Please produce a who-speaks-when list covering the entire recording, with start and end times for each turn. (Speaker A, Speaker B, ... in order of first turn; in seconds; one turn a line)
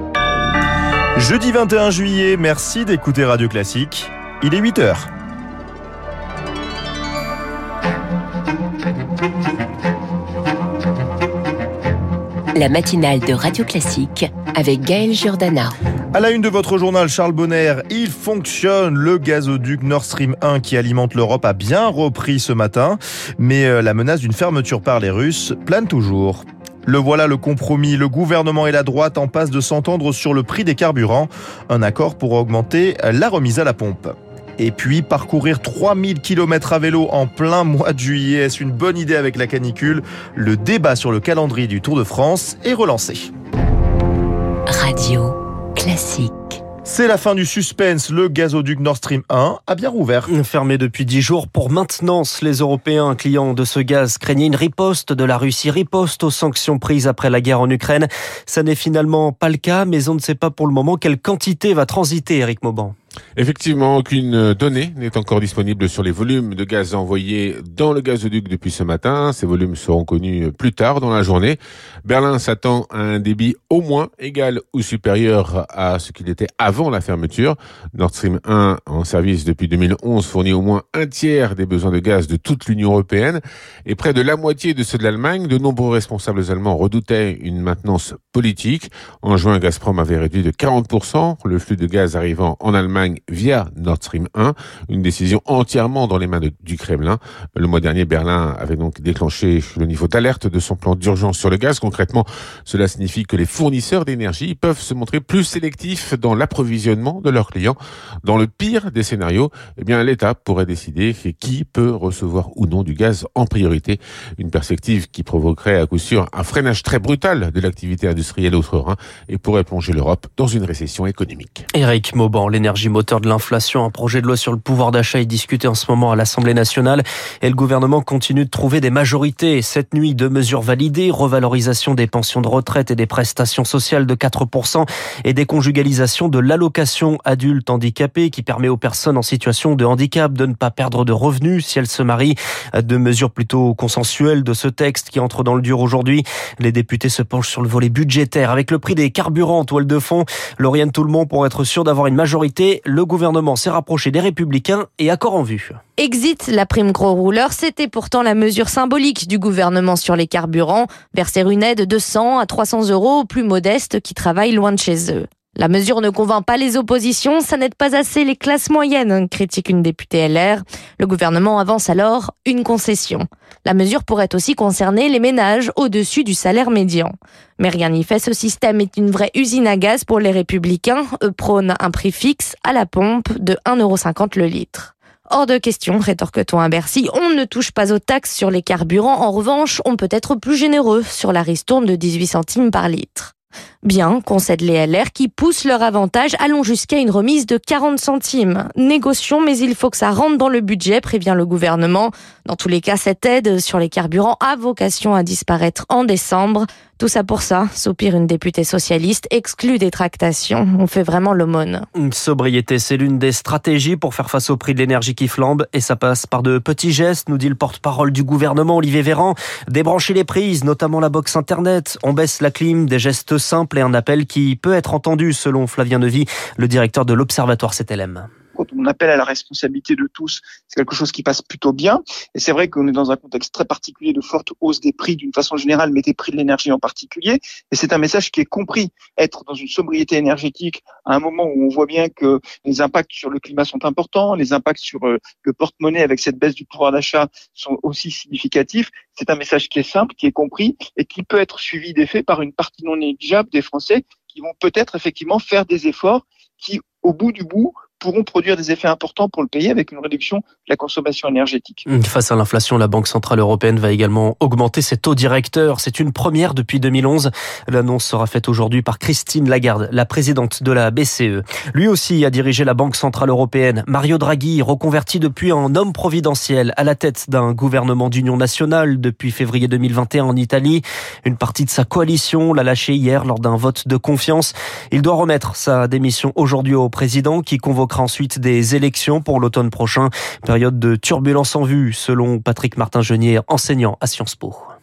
Speaker A: 1.2-5.1
Speaker B: 12.5-15.7
Speaker A: 16.1-43.3
Speaker B: 44.7-46.6
Speaker A: 46.8-50.3
Speaker C: 50.3-62.9
Speaker D: 63.4-121.6
Speaker C: 121.7-155.8
Speaker E: 156.0-211.8
Speaker C: 211.9-228.3
Speaker F: 228.6-261.8
Speaker C: 261.9-294.7